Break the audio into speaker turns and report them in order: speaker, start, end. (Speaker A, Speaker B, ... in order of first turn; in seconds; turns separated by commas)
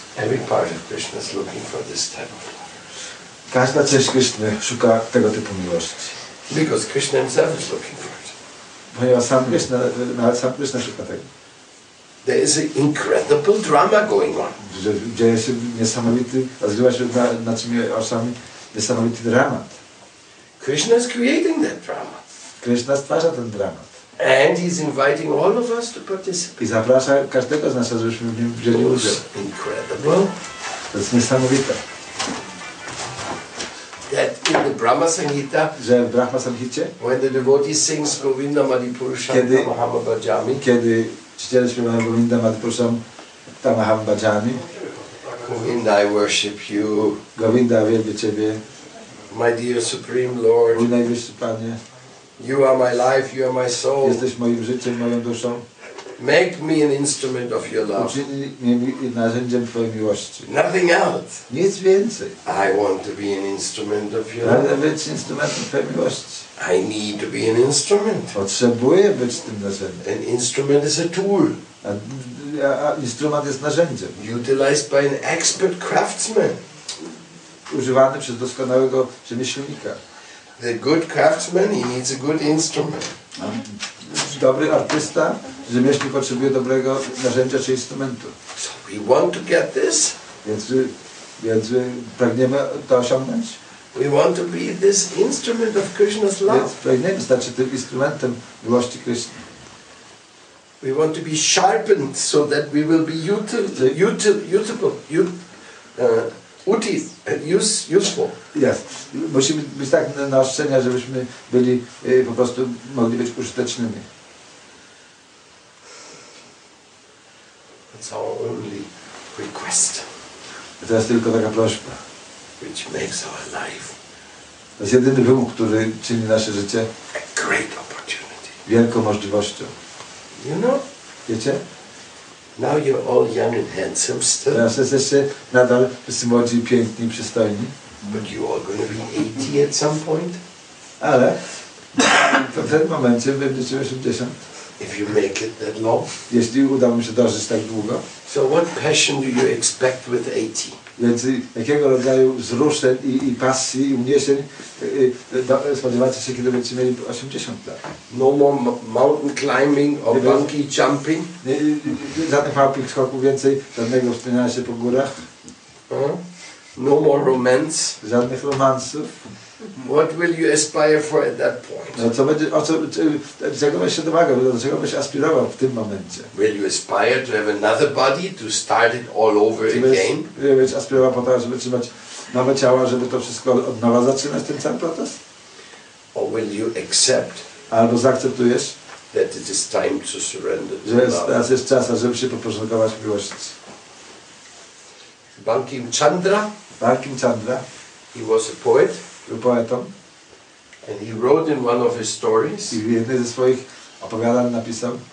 Speaker A: 0.1-2.7, Speaker B: 3.5-6.1, Speaker A: 6.5-8.3, Speaker B: 8.9-11.3, Speaker A: 12.2-14.6, Speaker B: 14.6-19.8, Speaker A: 20.6-22.2, Speaker B: 22.6-23.9, Speaker A: 24.2-26.6, Speaker B: 26.6-29.2, Speaker A: 28.7-30.3, Speaker B: 30.9-31.8, Speaker A: 34.1-35.8, Speaker B: 35.7-36.9, Speaker A: 37.0-40.6, Speaker B: 39.3-39.7, Speaker B: 40.6-43.0, Speaker B: 43.6-44.6, Speaker A: 45.2-47.2, Speaker B: 47.3-48.6, Speaker A: 49.3-50.9, Speaker B: 50.7-51.8, Speaker A: 52.4-54.2, Speaker B: 54.0-55.6, Speaker A: 56.2-58.2, Speaker B: 57.9-60.5, Speaker A: 60.4-61.5, Speaker B: 61.5-62.4, Speaker A: 62.4-64.7, Speaker B: 64.4-66.4, Speaker A: 66.5-68.3, Speaker B: 68.3-70.0, Speaker A: 70.0-71.6, Speaker B: 71.8-74.1, Speaker A: 74.1-76.6, Speaker B: 77.7-80.0, Speaker A: 80.6-83.1, Speaker B: 83.4-88.3, Speaker A: 88.5-90.2, Speaker B: 90.4-93.5, Speaker A: 93.9-96.7, Speaker B: 96.5-99.4, Speaker A: 100.8-105.4, Speaker A: 106.0-108.4, Speaker B: 108.5-114.0, Speaker A: 117.9-120.1, Speaker B: 120.8-122.0, Speaker A: 122.6-124.0, Speaker B: 124.8-126.9, Speaker A: 127.1-128.6, Speaker B: 128.7-129.7, Speaker A: 130.4-130.8, Speaker B: 131.2-131.6, Speaker A: 132.6-134.7, Speaker B: 134.5-137.7, Speaker A: 138.1-140.4, Speaker B: 141.0-144.4, Speaker A: 144.8-146.2, Speaker B: 146.3-148.0, Speaker A: 148.2-150.8, Speaker B: 151.0-157.8, Speaker A: 158.1-161.3, Speaker B: 160.1-160.5, Speaker B: 161.4-165.2, Speaker A: 165.9-166.2, Speaker A: 166.7-168.0, Speaker B: 168.0-169.1, Speaker A: 169.8-172.1, Speaker B: 171.9-176.3, Speaker A: 176.3-180.3, Speaker B: 179.7-185.2, Speaker A: 186.1-187.4, Speaker B: 187.7-188.7, Speaker A: 189.1-191.4, Speaker B: 190.8-193.6, Speaker A: 195.4-196.5, Speaker B: 196.8-197.6, Speaker A: 198.1-199.1, Speaker B: 199.2-199.9, Speaker A: 200.8-202.8, Speaker B: 202.7-205.0